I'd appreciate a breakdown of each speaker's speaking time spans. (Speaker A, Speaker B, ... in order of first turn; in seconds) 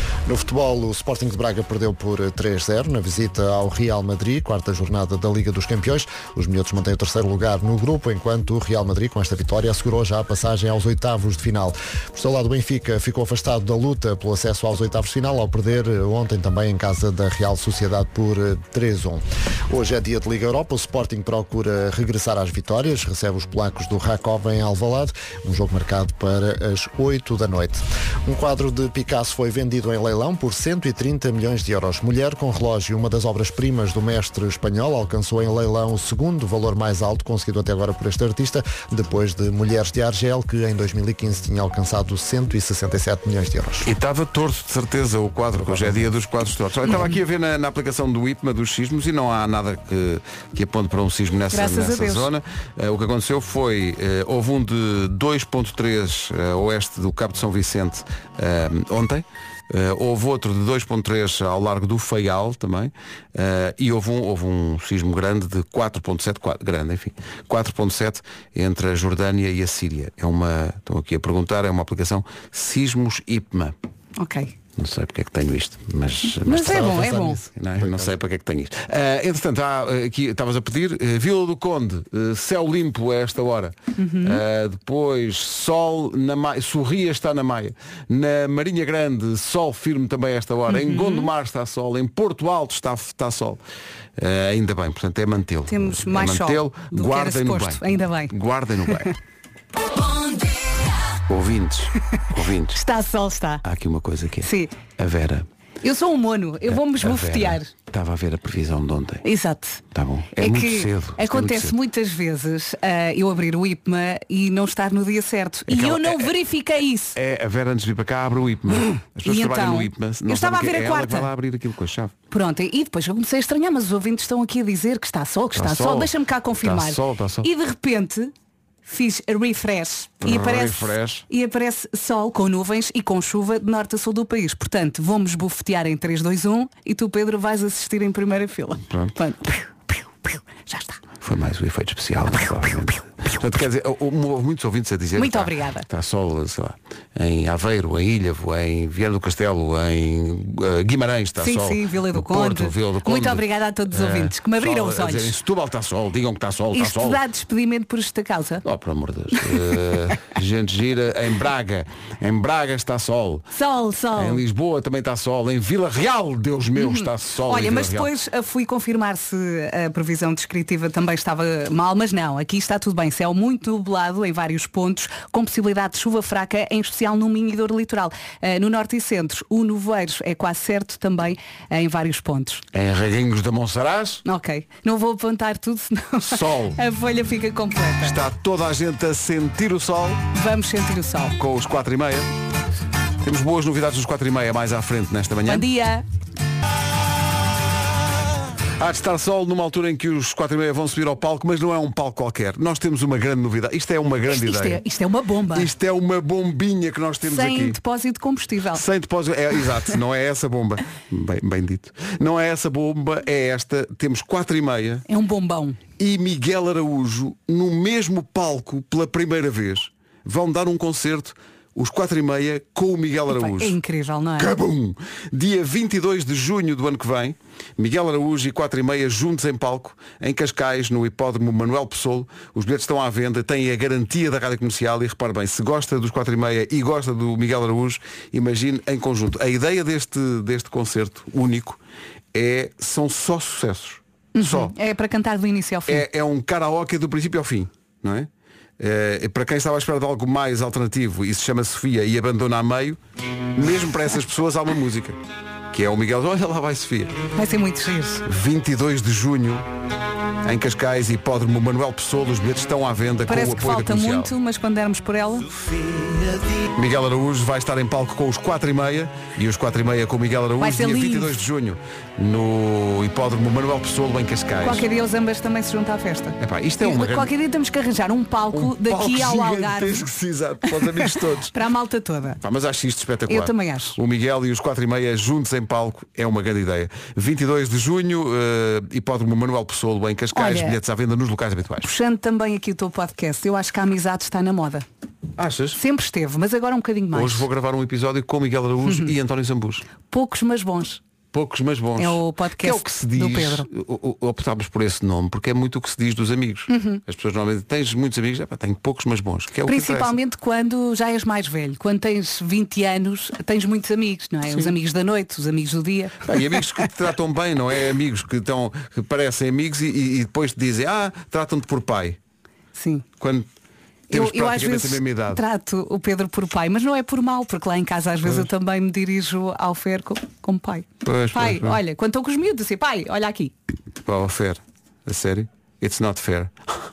Speaker A: 0.2-43.9, 76.7-78.1
Speaker B: 43.8-73.7, 74.8-93.6, 94.2-99.1, 101.3-102.8, 103.6-105.5, 106.7-109.3, 109.9-111.8, 115.7-116.3, 117.1-122.1, 125.5-127.5, 130.2-131.2, 138.9-139.2, 141.2-157.2, 158.6-163.5, 164.1-168.1, 182.7-184.2, 186.2-186.8, 188.0-190.2, 191.4-192.3, 193.2-195.7, 198.8-204.8, 205.5-207.8, 208.7-215.0, 216.0-223.8, 224.4-241.8, 242.3-244.7, 245.9-253.0, 253.6-255.2, 255.7-257.1, 258.2-259.6, 260.4-264.3, 266.8-274.8, 276.4-277.3, 278.5-281.5, 282.4-291.9, 295.4-295.8, 297.1-299.9, 301.3-310.1, 316.2-322.2, 323.2-323.5, 324.1-325.4, 331.0-331.8, 334.1-336.5
Speaker C: 46.8-47.2, 51.5-52.3, 74.2-74.5, 76.4-77.4, 84.0-84.4, 90.7-91.3, 95.7-98.3, 102.7-103.6, 104.4-104.7, 105.8-107.7, 109.2-109.8, 110.3-117.2, 119.2-121.3, 122.3-128.3, 128.8-141.0, 145.2-145.9, 151.4-155.3, 156.7-158.6, 163.5-164.4, 166.8-182.6, 184.2-188.2, 190.3-191.3, 195.4-196.0, 204.3-205.7, 207.2-208.8, 215.1-215.8, 223.3-224.5, 244.3-246.1, 257.4-258.2, 263.3-265.4, 270.6-271.3, 274.6-280.1, 280.7-282.4, 283.3-284.0, 290.3-290.8, 291.8-294.8, 295.7-297.5, 298.8-299.1, 300.0-301.0, 302.0-303.7, 306.7-307.0, 309.6-316.4, 322.7-323.0, 324.1-333.5